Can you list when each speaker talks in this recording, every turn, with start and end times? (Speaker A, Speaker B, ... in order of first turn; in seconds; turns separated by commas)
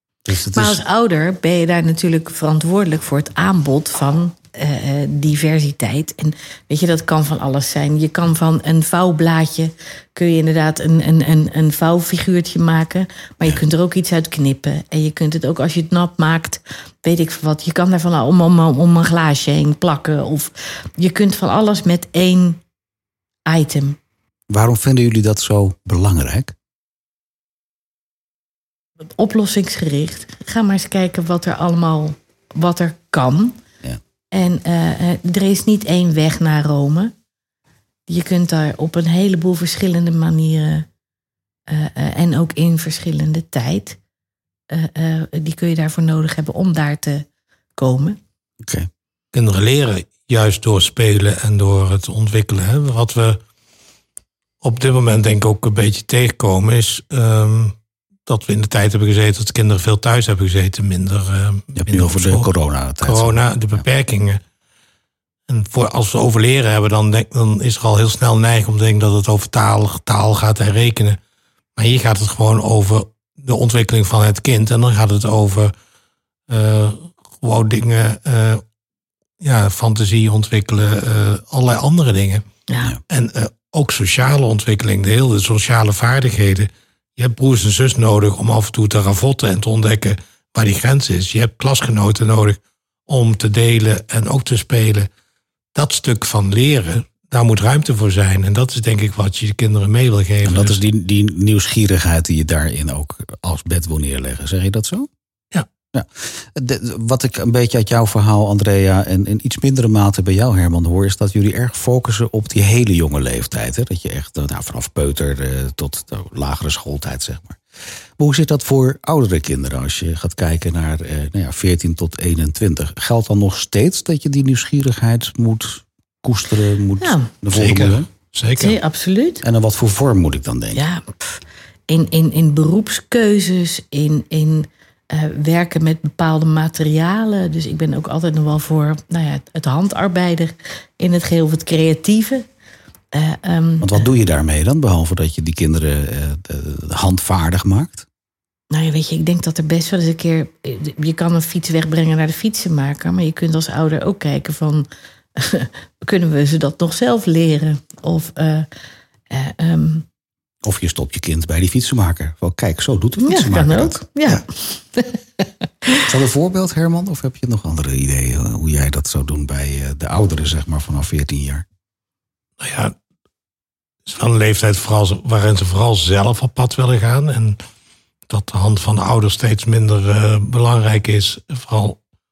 Speaker A: 0.2-0.8, Speaker B: 0.5-22.6, Speaker B: 23.5-24.0, Speaker A: 24.5-26.5, Speaker B: 29.2-33.6, Speaker B: 34.3-37.1, Speaker B: 38.1-40.9, Speaker B: 41.7-44.0, Speaker B: 44.7-47.3, Speaker B: 47.8-48.2, Speaker A: 48.6-48.9, Speaker C: 49.3-53.4, Speaker C: 54.6-57.8, Speaker C: 58.3-62.5, Speaker A: 61.8-63.8, Speaker C: 63.0-64.4, Speaker C: 65.5-71.2, Speaker C: 71.8-75.7, Speaker C: 76.5-78.6, Speaker C: 79.4-82.4, Speaker C: 83.1-95.1, Speaker C: 95.8-100.8, Speaker A: 100.5-105.1, Speaker A: 105.9-117.6, Speaker A: 118.2-128.1, Speaker B: 127.0-127.3, Speaker C: 127.5-128.8, Speaker B: 128.6-129.4, Speaker A: 129.4-130.8, Speaker B: 130.7-142.5, Speaker B: 143.1-144.1, Speaker A: 143.8-148.1, Speaker B: 148.7-158.7, Speaker B: 159.3-160.1, Speaker A: 160.6-164.0, Speaker B: 163.2-166.1, Speaker A: 166.1-171.7, Speaker C: 172.6-172.9, Speaker C: 174.1-177.6, Speaker C: 178.3-182.0